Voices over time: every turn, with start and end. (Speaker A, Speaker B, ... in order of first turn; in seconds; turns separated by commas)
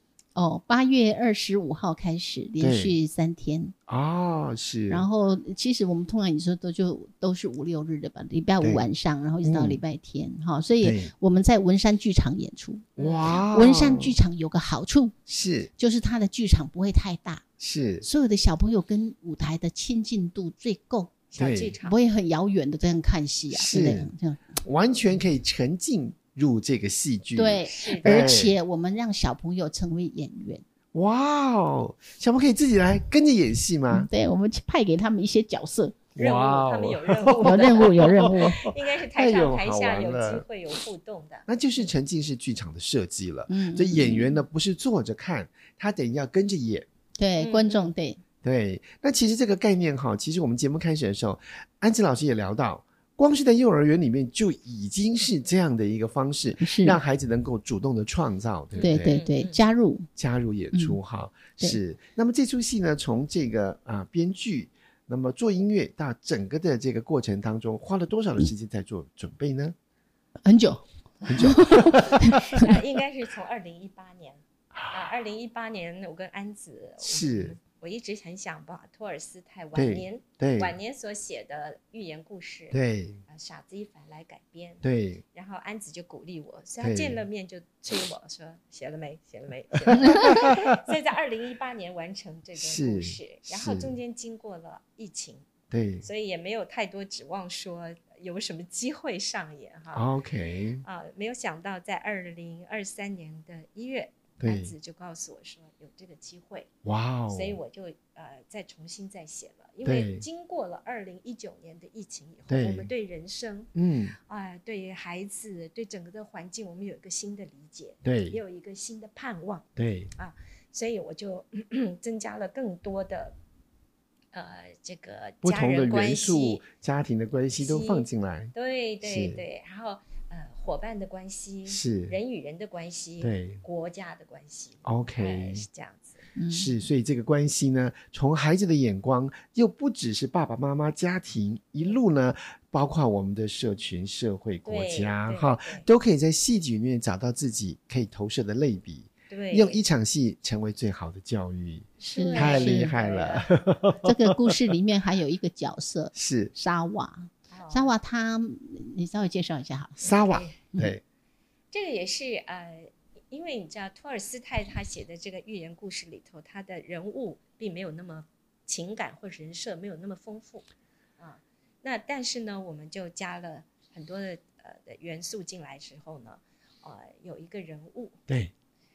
Speaker A: 0.3-3.7, Speaker B: 2.6-2.9, Speaker B: 3.9-5.1, Speaker A: 4.9-12.9, Speaker B: 9.4-9.8, Speaker B: 10.8-11.1, Speaker C: 13.0-13.4, Speaker B: 13.0-14.2, Speaker A: 13.5-15.1, Speaker B: 15.3-15.7, Speaker A: 15.8-17.4, Speaker B: 17.6-18.1, Speaker A: 18.0-21.1, Speaker C: 21.3-21.9, Speaker B: 21.4-21.8, Speaker A: 21.8-24.6, Speaker B: 23.5-24.1, Speaker B: 24.6-28.5, Speaker A: 27.3-30.6, Speaker C: 27.7-28.4, Speaker B: 30.9-34.1, Speaker A: 33.9-36.0, Speaker B: 36.1-40.5, Speaker C: 36.2-41.5, Speaker A: 37.4-38.6, Speaker B: 41.5-46.9, Speaker A: 43.5-44.4, Speaker A: 47.2-48.2, Speaker C: 47.4-47.9, Speaker B: 48.4-59.2, Speaker A: 56.6-57.0, Speaker C: 58.7-59.6, Speaker A: 58.8-60.1, Speaker B: 60.1-69.7, Speaker A: 60.7-61.0, Speaker A: 70.4-72.7, Speaker B: 71.3-72.8, Speaker C: 71.8-82.8, Speaker B: 77.0-77.5, Speaker B: 79.7-80.8, Speaker B: 82.7-83.2, Speaker C: 83.3-95.5, Speaker B: 84.8-85.2, Speaker B: 86.8-87.2, Speaker B: 89.9-90.7, Speaker B: 92.6-94.0, Speaker B: 95.7-96.1, Speaker C: 96.0-100.1, Speaker B: 99.9-100.8, Speaker C: 100.8-106.7, Speaker B: 104.4-104.7, Speaker B: 106.8-107.6, Speaker C: 107.3-113.7, Speaker B: 109.8-110.2, Speaker B: 112.5-112.9, Speaker B: 113.8-114.2, Speaker C: 114.2-123.4, Speaker B: 118.0-118.4, Speaker B: 119.8-120.1, Speaker C: 124.3-126.6, Speaker B: 125.4-129.4, Speaker C: 127.6-136.2, Speaker B: 131.7-132.2, Speaker B: 133.2-133.6, Speaker B: 134.8-135.7, Speaker A: 136.3-136.7, Speaker B: 136.5-154.7, Speaker C: 144.7-145.8, Speaker C: 149.3-149.8, Speaker A: 152.0-153.0, Speaker C: 152.1-153.5, Speaker A: 154.0-160.1, Speaker B: 156.1-156.5, Speaker C: 157.5-157.9, Speaker B: 160.0-161.0, Speaker C: 160.1-160.6, Speaker C: 161.7-170.7, Speaker C: 171.2-178.2